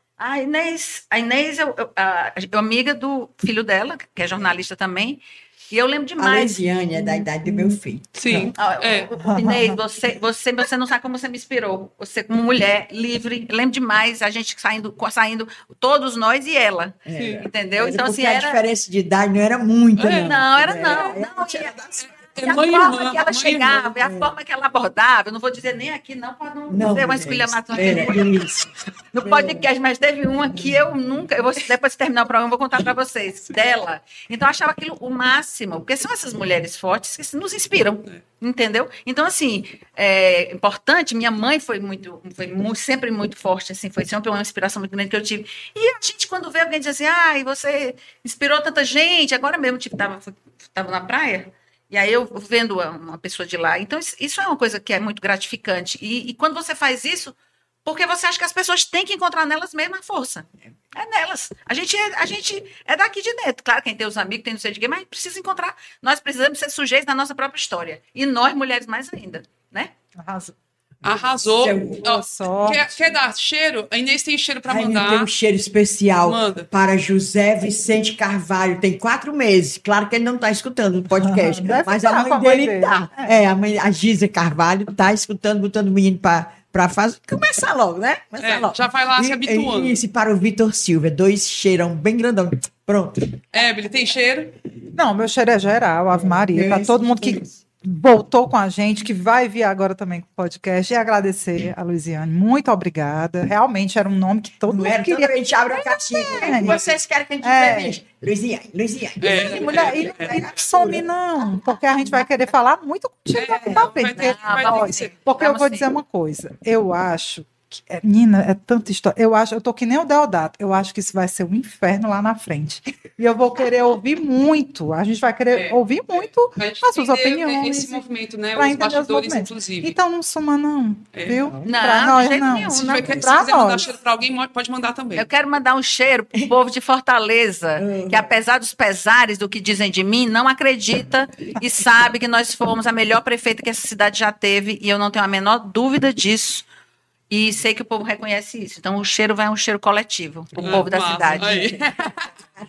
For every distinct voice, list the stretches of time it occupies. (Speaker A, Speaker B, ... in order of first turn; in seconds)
Speaker A: 0.2-6.6, 8.5-18.6, 20.0-28.5, 29.1-69.9, 114.2-115.9, 131.6-133.4, 135.1-146.7, 147.3-151.7
Speaker B: 6.2-8.5, 17.1-22.1, 24.0-24.3, 26.7-29.7, 71.5-72.0, 74.7-93.4, 96.1-97.5, 104.7-111.1, 131.4-131.7, 137.8-138.3, 151.4-151.8
Speaker C: 7.1-7.8, 9.3-9.8, 70.2-70.5, 72.0-72.8, 81.1-83.3, 94.9-106.8, 107.4-108.0, 109.2-133.9
Speaker D: 8.2-9.1, 17.1-17.4, 20.0-20.4, 22.0-23.9, 71.0-75.3, 76.2-76.7, 88.4-90.0, 93.5-94.5, 106.4-106.9, 109.2-110.9, 113.3-115.1, 125.5-129.9, 131.1-131.4, 132.5-135.3, 150.6-152.3